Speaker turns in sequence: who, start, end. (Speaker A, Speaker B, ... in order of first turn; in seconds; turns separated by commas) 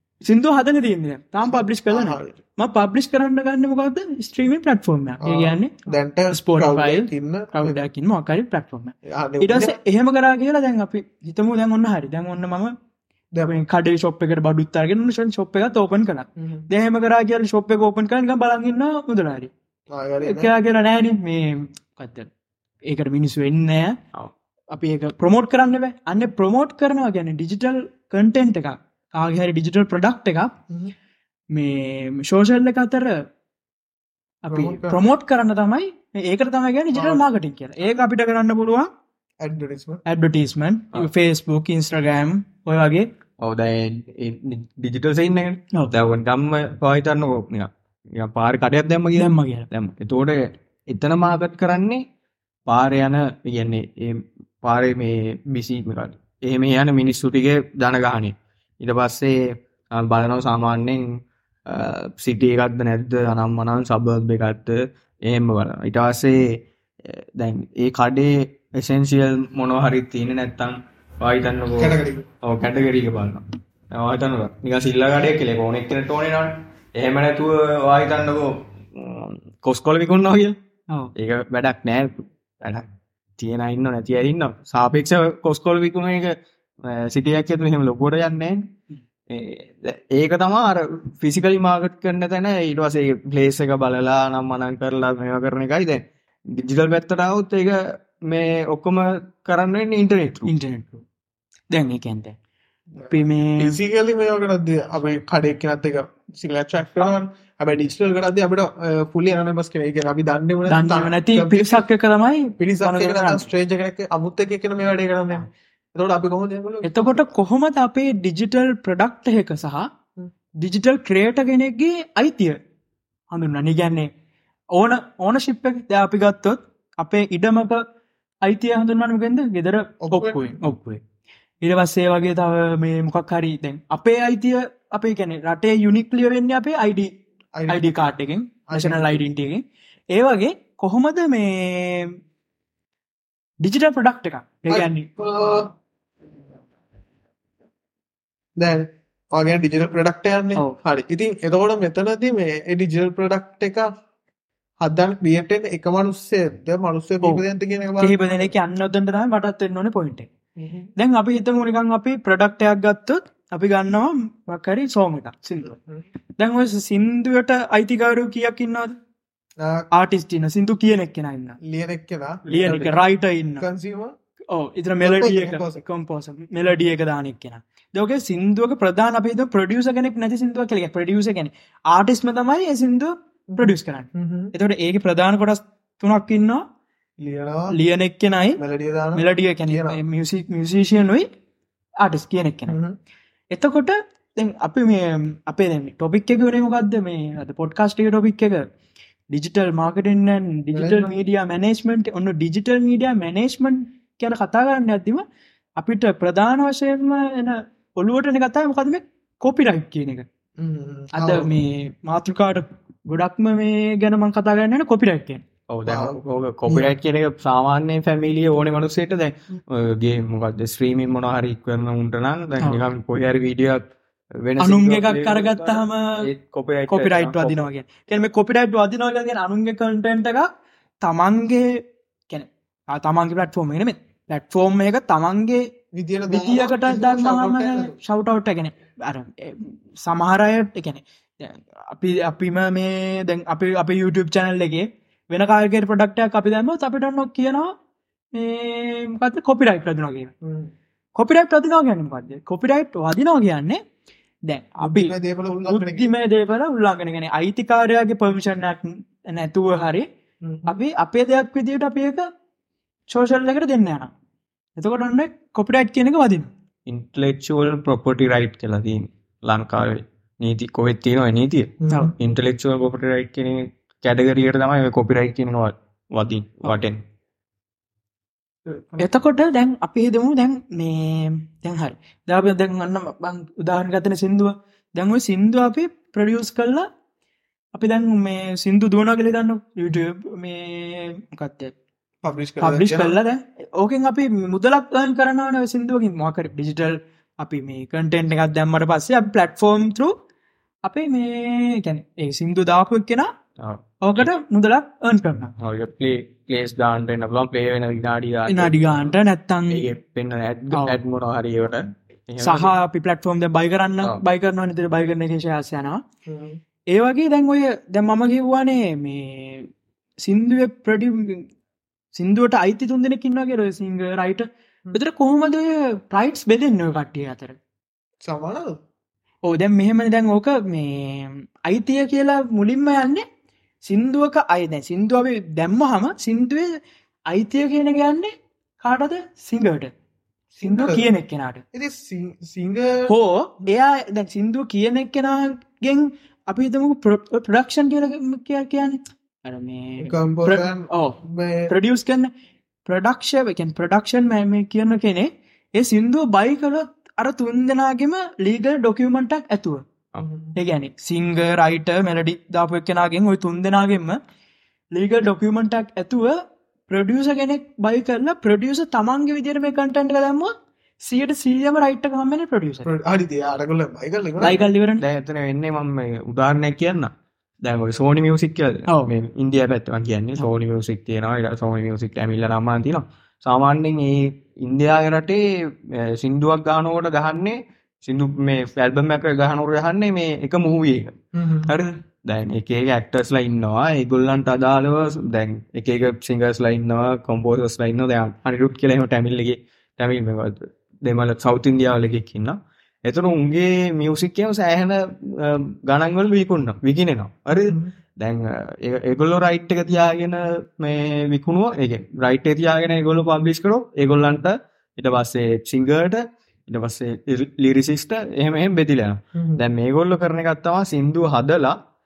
Speaker A: 0.2-5.8, Speaker B: 1.4-2.4, Speaker B: 5.2-7.8, Speaker A: 6.3-12.7, Speaker B: 9.0-9.8, Speaker A: 13.4-19.5, Speaker B: 16.4-16.6, Speaker B: 19.9-20.5, Speaker A: 20.2-22.3, Speaker A: 22.9-24.0, Speaker A: 24.7-30.5, Speaker A: 31.5-33.2, Speaker A: 34.4-38.9, Speaker B: 34.5-35.0, Speaker B: 36.9-37.2, Speaker B: 39.4-40.0, Speaker A: 40.0-43.1, Speaker C: 43.4-52.0, Speaker A: 49.2-49.6, Speaker C: 52.7-80.6, Speaker B: 71.8-72.2, Speaker C: 81.1-82.9, Speaker C: 83.4-88.7, Speaker C: 89.3-100.5, Speaker A: 100.5-101.0, Speaker A: 101.7-102.3, Speaker B: 103.0-111.8, Speaker A: 103.1-103.8, Speaker A: 110.7-113.5, Speaker B: 112.6-117.3, Speaker A: 116.8-119.9, Speaker A: 120.6-122.6, Speaker A: 123.3-124.1, Speaker A: 124.7-127.8, Speaker A: 128.4-131.0, Speaker B: 130.0-130.6, Speaker A: 131.6-137.1, Speaker B: 137.5-138.1, Speaker A: 137.7-142.2, Speaker B: 138.7-139.2, Speaker A: 143.6-145.1, Speaker B: 144.7-145.7, Speaker B: 148.6-153.9, Speaker B: 154.8-158.5, Speaker A: 158.0-160.3, Speaker B: 160.6-160.9, Speaker A: 160.9-165.7, Speaker B: 165.7-166.0, Speaker A: 166.4-168.9, Speaker B: 169.6-169.9, Speaker A: 169.9-171.6, Speaker B: 171.6-173.0, Speaker C: 172.5-172.9, Speaker A: 172.5-173.7, Speaker B: 173.6-174.1, Speaker A: 174.5-186.6, Speaker B: 175.0-175.8, Speaker B: 183.5-184.5, Speaker B: 187.2-187.7, Speaker A: 187.7-188.6, Speaker B: 188.6-190.0, Speaker A: 189.1-191.3, Speaker A: 192.0-192.8, Speaker B: 192.7-193.0, Speaker A: 193.5-198.6, Speaker A: 199.3-205.2, Speaker B: 200.7-201.2, Speaker A: 205.8-210.2, Speaker B: 210.6-211.5, Speaker A: 211.1-215.4, Speaker C: 215.7-223.8, Speaker B: 215.8-216.9, Speaker A: 222.6-222.9, Speaker C: 224.4-227.7, Speaker A: 224.6-226.3, Speaker A: 226.9-230.5, Speaker A: 231.0-235.7, Speaker B: 235.9-238.0, Speaker A: 236.3-247.7, Speaker A: 248.3-250.3, Speaker B: 250.4-250.7, Speaker A: 251.2-253.8, Speaker A: 254.4-255.2, Speaker B: 254.8-256.1, Speaker A: 255.7-260.1, Speaker B: 260.4-260.7, Speaker A: 260.7-262.3, Speaker A: 263.1-264.1, Speaker A: 264.8-266.5, Speaker C: 266.9-277.0, Speaker B: 271.8-272.1, Speaker B: 278.6-279.0, Speaker A: 279.0-286.9, Speaker A: 287.7-291.7, Speaker B: 292.2-293.2, Speaker A: 292.6-300.1, Speaker A: 300.8-303.3, Speaker C: 303.6-304.2, Speaker A: 304.0-305.5, Speaker C: 305.6-309.1, Speaker A: 308.5-309.9, Speaker C: 309.7-312.7, Speaker A: 310.7-311.0, Speaker A: 312.4-316.0, Speaker B: 316.2-316.6, Speaker A: 316.9-319.7, Speaker A: 320.2-321.5, Speaker A: 322.1-327.6, Speaker B: 328.2-328.8, Speaker A: 329.4-333.2, Speaker A: 333.8-336.8, Speaker A: 337.3-339.9, Speaker B: 340.5-341.1, Speaker A: 340.6-341.6, Speaker B: 341.7-343.1, Speaker A: 343.1-352.3, Speaker B: 350.0-351.7, Speaker A: 352.9-359.8, Speaker B: 360.2-360.5, Speaker A: 360.6-364.2, Speaker A: 364.9-372.9, Speaker B: 372.8-374.6, Speaker A: 374.4-375.0, Speaker C: 375.0-377.1, Speaker C: 377.6-391.1, Speaker B: 391.3-391.7, Speaker C: 391.7-421.8, Speaker B: 419.3-419.6